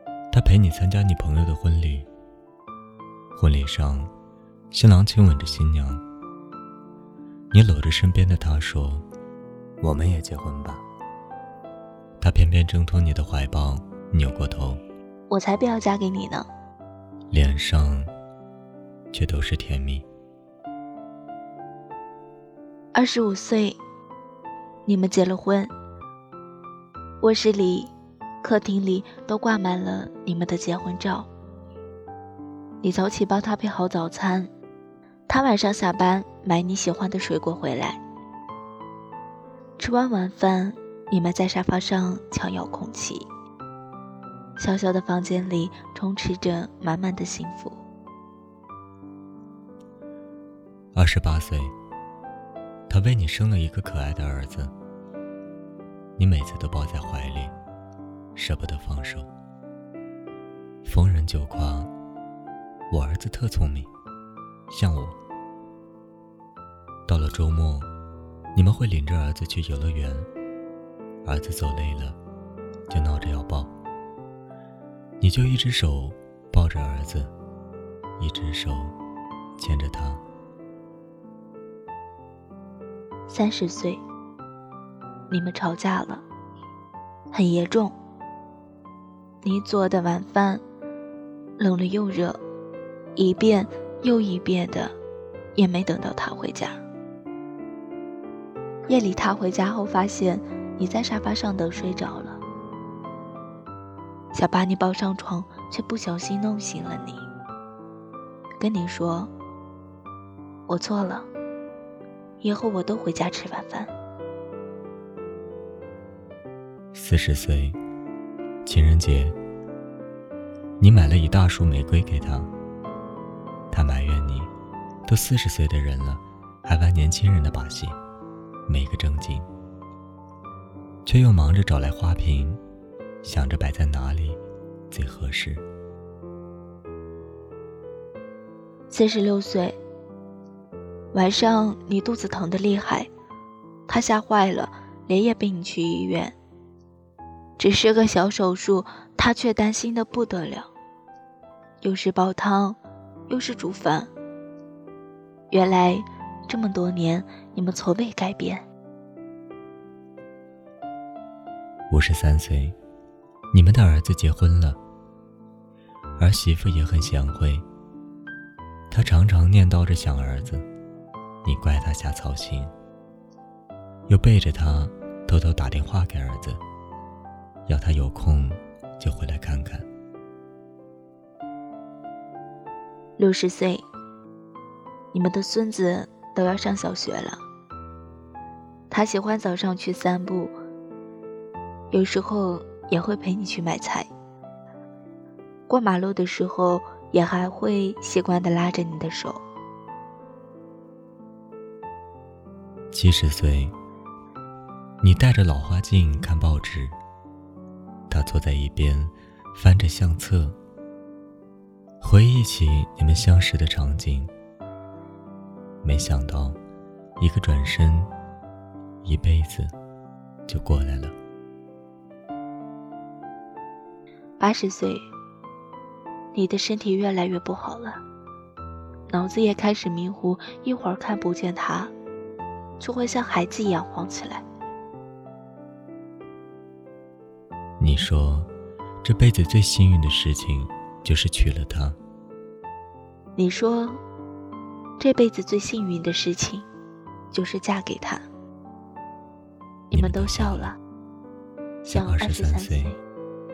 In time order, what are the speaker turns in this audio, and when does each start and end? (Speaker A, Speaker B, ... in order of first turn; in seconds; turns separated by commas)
Speaker A: 0.3-2.1, Speaker A: 3.3-4.1, Speaker A: 4.7-6.0, Speaker A: 7.5-9.1, Speaker A: 9.8-10.8, Speaker A: 12.2-14.8, Speaker B: 15.3-16.5, Speaker A: 17.3-18.1, Speaker A: 19.1-20.1, Speaker B: 22.9-23.8, Speaker B: 24.9-25.7, Speaker B: 27.2-31.3, Speaker B: 32.8-34.5, Speaker B: 35.3-38.0, Speaker B: 39.8-43.3, Speaker B: 44.6-47.8, Speaker A: 50.9-51.7, Speaker A: 52.9-54.7, Speaker A: 56.2-57.5, Speaker A: 58.3-59.3, Speaker A: 60.8-61.9, Speaker A: 62.9-63.9, Speaker A: 64.7-65.2, Speaker A: 67.1-67.9, Speaker A: 68.5-70.3, Speaker A: 71.2-72.2, Speaker A: 72.9-73.7, Speaker A: 75.2-77.3, Speaker A: 78.2-79.0, Speaker A: 79.6-80.2, Speaker B: 83.3-84.0, Speaker B: 85.3-86.2, Speaker B: 87.3-87.9, Speaker B: 89.4-90.6, Speaker B: 91.6-92.4, Speaker B: 93.2-95.0, Speaker B: 95.5-96.8, Speaker B: 98.9-102.4, Speaker B: 104.3-107.3, Speaker B: 108.6-109.3, Speaker B: 110.7-111.3, Speaker B: 112.4-113.9, Speaker A: 116.9-117.8, Speaker A: 118.6-119.4, Speaker A: 120.8-122.5, Speaker A: 123.7-124.5, Speaker A: 125.0-128.0, Speaker A: 128.7-129.4, Speaker A: 131.0-132.6, Speaker A: 133.2-135.6, Speaker B: 138.9-139.8, Speaker B: 141.1-143.1, Speaker B: 143.9-146.3, Speaker B: 147.6-150.7, Speaker B: 151.8-154.1, Speaker B: 155.5-158.7, Speaker A: 161.9-162.8, Speaker A: 163.5-164.8, Speaker A: 166.2-167.7, Speaker A: 168.9-170.7, Speaker A: 171.4-172.7, Speaker A: 174.1-176.6, Speaker A: 177.7-179.9, Speaker B: 183.2-183.8, Speaker B: 185.1-187.4, Speaker B: 188.9-190.5, Speaker B: 191.9-194.1, Speaker B: 195.7-199.4, Speaker A: 202.9-203.7, Speaker A: 205.0-207.0, Speaker A: 208.1-210.6, Speaker A: 212.0-214.3, Speaker A: 215.8-216.6, Speaker A: 217.2-218.1, Speaker A: 219.0-219.7, Speaker A: 220.5-221.1, Speaker B: 224.4-225.1, Speaker B: 226.3-228.0, Speaker B: 229.1-231.9, Speaker B: 232.8-234.4, Speaker A: 237.8-238.5, Speaker A: 239.0-242.0, Speaker B: 243.3-244.0, Speaker B: 245.0-246.7, Speaker B: 247.3-248.2, Speaker B: 249.9-250.8, Speaker A: 249.9-250.7, Speaker A: 251.8-252.9, Speaker B: 251.9-253.0